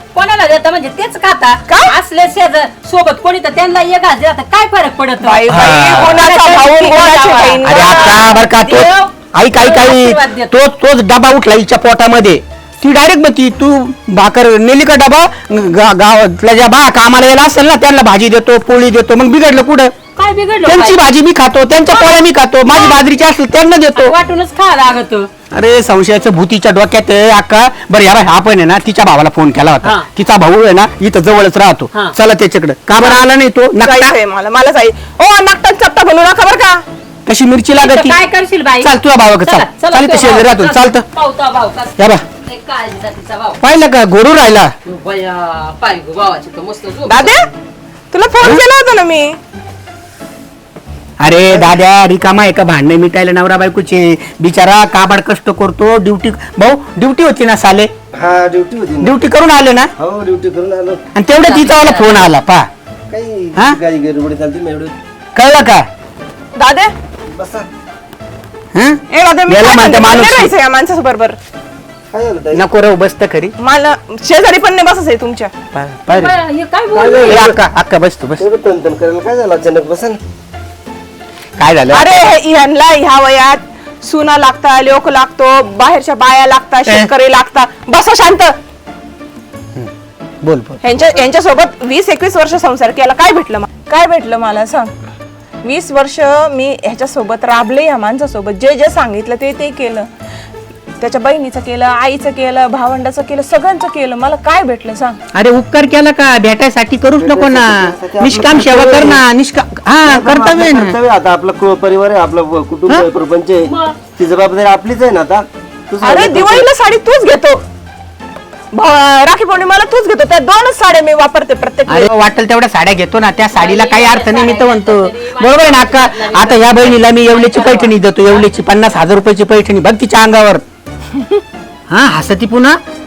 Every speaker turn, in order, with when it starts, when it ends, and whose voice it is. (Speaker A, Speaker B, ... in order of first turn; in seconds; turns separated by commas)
Speaker A: 0.1-10.5, Speaker B: 1.7-1.9, Speaker B: 5.2-8.3, Speaker C: 5.5-6.2, Speaker C: 7.6-19.9, Speaker A: 20.1-21.0, Speaker C: 20.6-24.1, Speaker A: 21.9-23.1, Speaker A: 23.9-25.3, Speaker C: 25.5-34.1, Speaker B: 33.0-33.2, Speaker B: 33.8-36.8, Speaker C: 37.2-38.2, Speaker A: 37.8-43.6, Speaker C: 38.8-41.0, Speaker C: 42.0-42.2, Speaker C: 43.6-44.7, Speaker A: 44.8-47.5, Speaker B: 47.0-47.5, Speaker B: 48.1-49.4, Speaker C: 51.2-57.9, Speaker D: 58.1-59.2, Speaker C: 59.0-59.9, Speaker D: 60.0-61.0, Speaker C: 61.1-62.7, Speaker A: 61.4-62.3, Speaker D: 63.1-64.9, Speaker C: 65.3-65.9, Speaker B: 66.5-66.9, Speaker D: 67.3-67.7, Speaker C: 68.7-70.5, Speaker B: 69.1-71.4, Speaker D: 72.1-72.7, Speaker C: 72.5-73.5, Speaker B: 73.6-75.5, Speaker C: 75.7-76.3, Speaker A: 76.1-77.5, Speaker D: 76.9-77.6, Speaker C: 77.2-78.4, Speaker D: 78.4-80.2, Speaker C: 81.6-82.1, Speaker B: 81.9-88.5, Speaker C: 90.4-90.8, Speaker B: 90.8-94.9, Speaker B: 95.6-100.1, Speaker B: 101.0-105.2, Speaker C: 105.3-111.0, Speaker D: 107.2-109.2, Speaker D: 110.0-116.7, Speaker A: 113.6-114.0, Speaker B: 116.0-117.6, Speaker B: 118.7-122.1, Speaker C: 121.9-130.6, Speaker A: 123.5-128.5, Speaker B: 131.1-131.4, Speaker C: 131.9-132.8